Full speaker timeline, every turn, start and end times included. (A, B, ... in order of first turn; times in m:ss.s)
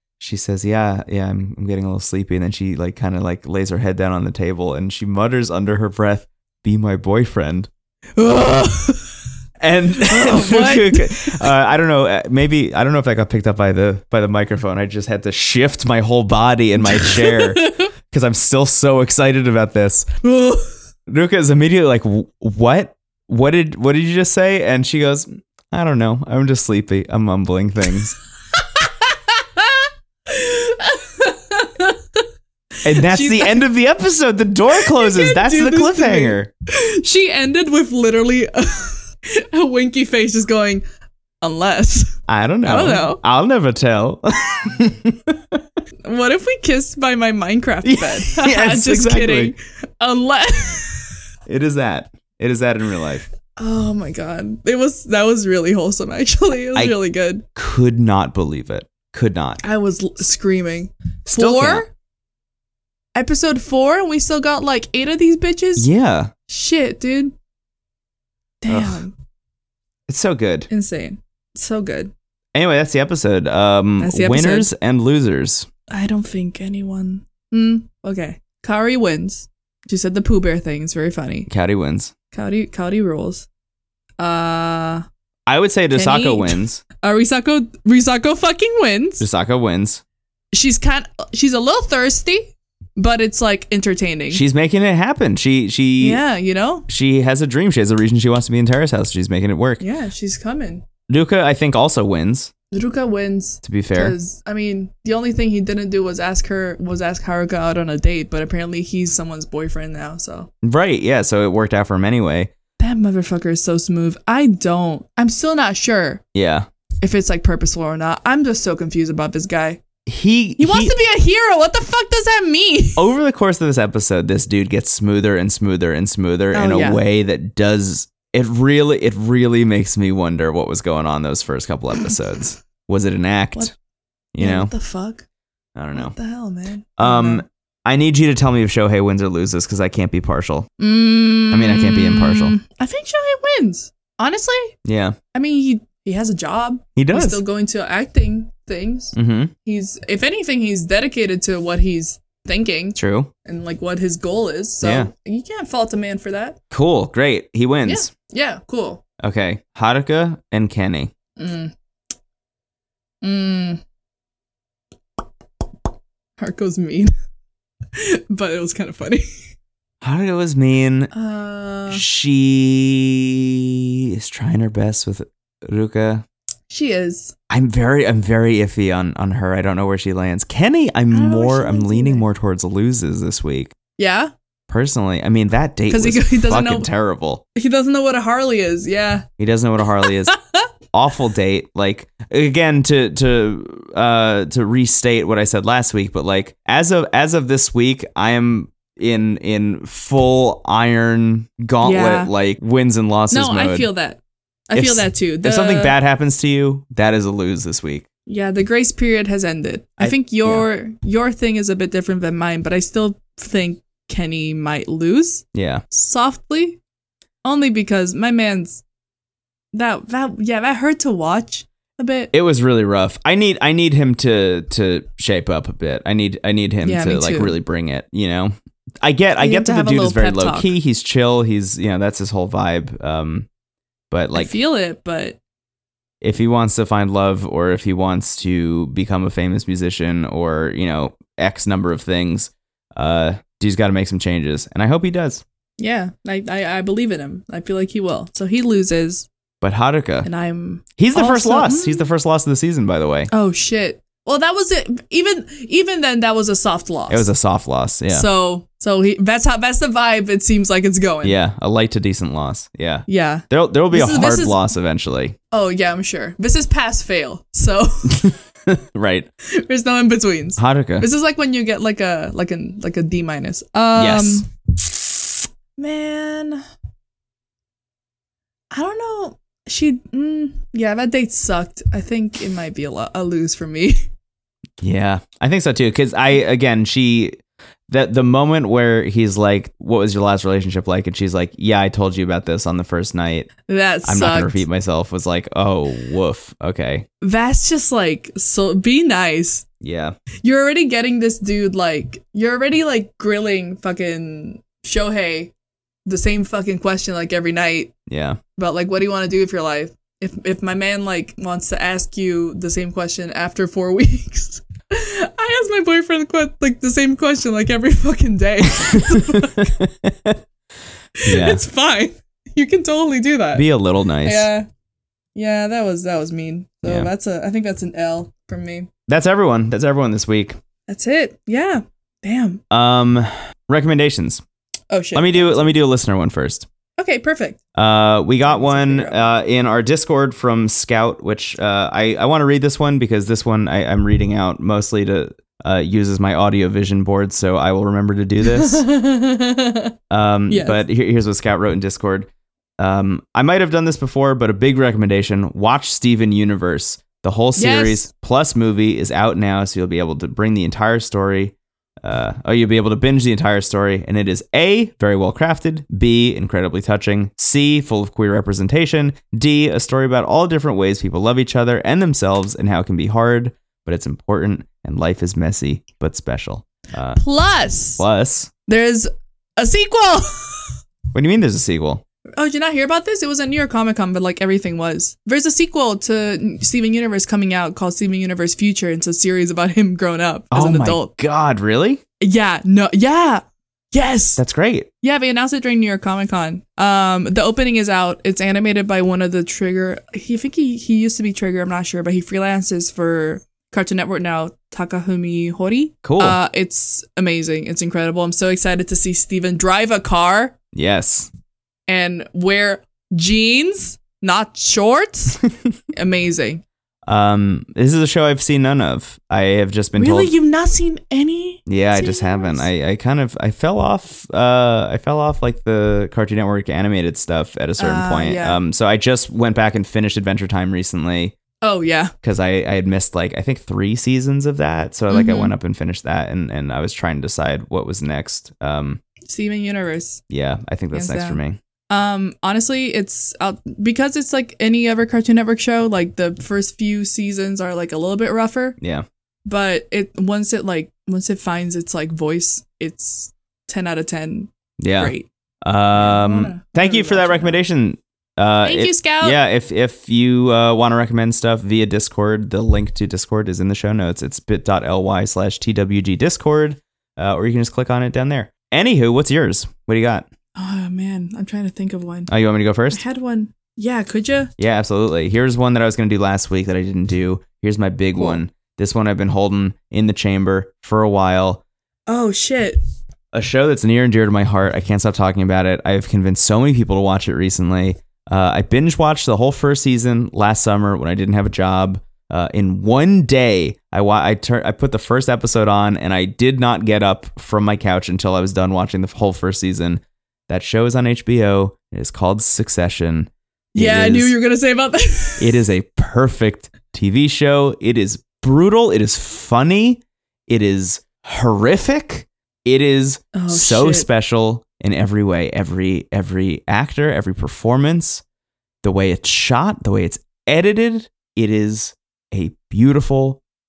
0:00.2-0:07.7 A
0:08.2-0:09.1 B
0:09.6-0:20.1 A
0:10.1-0:11.5 B
0:16.9-0:17.9 B
0:20.2-0:20.7 B
0:21.1-0:28.2 A
0:28.5-0:32.2 B
0:32.8-0:36.5 A
0:32.9-0:33.6 B
0:34.8-0:40.8 B
0:41.4-0:43.2 B
0:42.3-0:45.6 A
0:46.0-0:51.2 B
0:47.8-0:49.5 A
0:51.5-0:53.2 A
0:53.6-0:57.4 B
0:57.5-0:59.6 A
0:59.6-1:01.9 B
1:01.3-1:01.8 A
1:03.1-1:05.9 B
1:05.8-1:06.3 A
1:06.5-1:07.3 B
1:08.6-1:09.1 B
1:08.7-1:09.0 A
1:10.1-1:10.7 A
1:10.7-1:12.1 B
1:12.5-1:15.7 A
1:14.0-1:14.7 B
1:15.9-1:21.5 B
1:21.5-1:22.1 A
1:22.3-1:23.5 B
1:24.2-1:25.0 B
1:25.5-1:26.8 A
1:25.9-1:29.2 B
1:29.2-1:30.0 A
1:30.5-1:34.4 B
1:34.3-1:36.2 A
1:36.0-1:36.8 B
1:36.9-1:39.8 A
1:39.8-1:40.8 B
1:41.1-1:42.5 A
1:42.7-1:50.5 B
1:43.6-1:44.2 A
1:50.6-1:52.5 A
1:52.8-1:56.2 B
1:56.3-1:56.7 A
1:57.0-1:59.8 B
2:00.1-2:00.9 A
2:00.6-2:03.0 B
2:03.0-2:13.7 A
2:06.5-2:07.0 B
2:14.3-2:14.7 A
2:14.4-2:15.2 B
2:15.8-2:16.2 A
2:15.9-2:17.4 B
2:17.0-2:20.7 A
2:20.8-2:24.8 B
2:21.5-2:22.6 A
2:24.8-2:25.2 A
2:25.3-2:29.1 B
2:27.0-2:27.4 A
2:29.1-2:29.5 A
2:29.6-2:36.6 B
2:33.0-2:33.3 A
2:34.8-2:35.1 A
2:36.7-2:38.1 A
2:37.8-2:39.0 B
2:39.2-2:41.1 A
2:41.4-2:41.7 B
2:43.2-2:43.8 B
2:46.4-2:47.1 B
2:47.9-2:49.4 B
2:50.0-2:51.1 A
2:51.1-2:52.0 B
2:51.9-2:53.6 A
2:54.2-2:56.2 A
2:56.7-2:57.3 B
2:57.5-3:03.7 A
3:01.1-3:02.2 B
3:04.0-3:04.3 B
3:04.7-3:07.4 A
3:05.9-3:06.9 B
3:07.6-3:09.3 B
3:09.4-3:10.3 A
3:10.0-3:10.6 B
3:10.9-3:23.9 A
3:21.8-3:22.3 B
3:23.3-3:25.9 B
3:24.7-3:28.0 A
3:28.3-3:36.8 B
3:30.0-3:30.6 A
3:35.5-3:35.8 A
3:37.4-3:38.8 B
3:39.7-3:42.3 B
3:42.3-3:53.5 A
3:46.8-3:47.5 B
3:49.4-3:50.7 B
3:54.1-3:54.5 A
3:54.3-3:55.4 B
3:56.2-4:05.4 A
4:05.8-4:09.3 B
4:09.6-4:10.3 A
4:10.2-4:12.1 B
4:11.0-4:13.3 A
4:13.3-4:17.3 B
4:17.1-4:18.3 A
4:18.1-4:21.4 B
4:21.2-4:25.4 A
4:23.1-4:24.6 B
4:25.5-4:28.3 B
4:28.1-4:29.3 A
4:29.5-4:35.0 B
4:30.6-4:31.1 A
4:33.9-4:34.4 A
4:35.8-4:36.6 B
4:38.7-4:44.0 B
4:44.8-4:47.4 A
4:47.9-4:53.5 A
4:53.7-4:54.6 B
4:54.0-4:57.1 A
4:57.2-4:59.6 B
4:59.8-5:00.2 A
5:00.4-5:05.5 B
5:06.0-5:07.9 B
5:08.1-5:08.4 A
5:08.6-5:19.7 B
5:18.8-5:20.4 A
5:21.2-5:21.6 A
5:21.2-5:23.7 B
5:23.5-5:24.5 A
5:24.2-5:24.7 B
5:25.3-5:28.9 B
5:26.8-5:27.1 A
5:29.1-5:30.6 A
5:30.9-5:32.6 B
5:32.7-5:34.4 A
5:34.9-5:35.7 B
5:35.1-5:36.7 A
5:37.0-5:37.6 B
5:37.7-5:48.8 A
5:38.4-5:39.3 B
5:48.4-5:49.9 B
5:50.1-5:52.3 A
5:50.5-5:50.8 B
5:52.8-6:17.2 A
5:57.6-5:58.1 B
6:17.2-6:18.0 B
6:18.0-6:18.5 A
6:18.7-6:20.8 B
6:21.1-6:22.0 A
6:22.4-6:31.1 B
6:30.5-6:32.0 A
6:32.2-6:34.4 B
6:34.4-6:34.9 A
6:35.0-6:50.6 B
6:46.0-6:46.4 A
6:50.7-6:51.3 A
6:51.9-6:55.4 B
6:55.9-6:56.6 B
6:57.1-7:00.3 A
7:00.0-7:02.7 B
7:01.7-7:11.4 A
7:07.8-7:08.6 B
7:11.6-7:12.1 B
7:12.2-7:19.0 A
7:15.1-7:15.5 B
7:19.2-7:20.2 B
7:20.3-7:21.6 A
7:20.9-7:21.4 B
7:21.9-7:28.8 B
7:28.8-7:29.0 A
7:29.4-7:35.3 B
7:34.8-7:50.3 A
7:35.9-7:37.6 B
7:38.6-7:39.4 B
7:50.6-7:52.3 B
7:52.3-7:53.0 A
7:52.9-7:54.5 B
7:54.6-8:01.6 A
7:58.1-7:58.4 B
8:02.1-8:02.8 B
8:03.3-8:24.3 A
8:23.7-8:25.6 B
8:25.4-8:38.2 A
8:33.3-8:34.1 B
8:38.8-8:43.4 A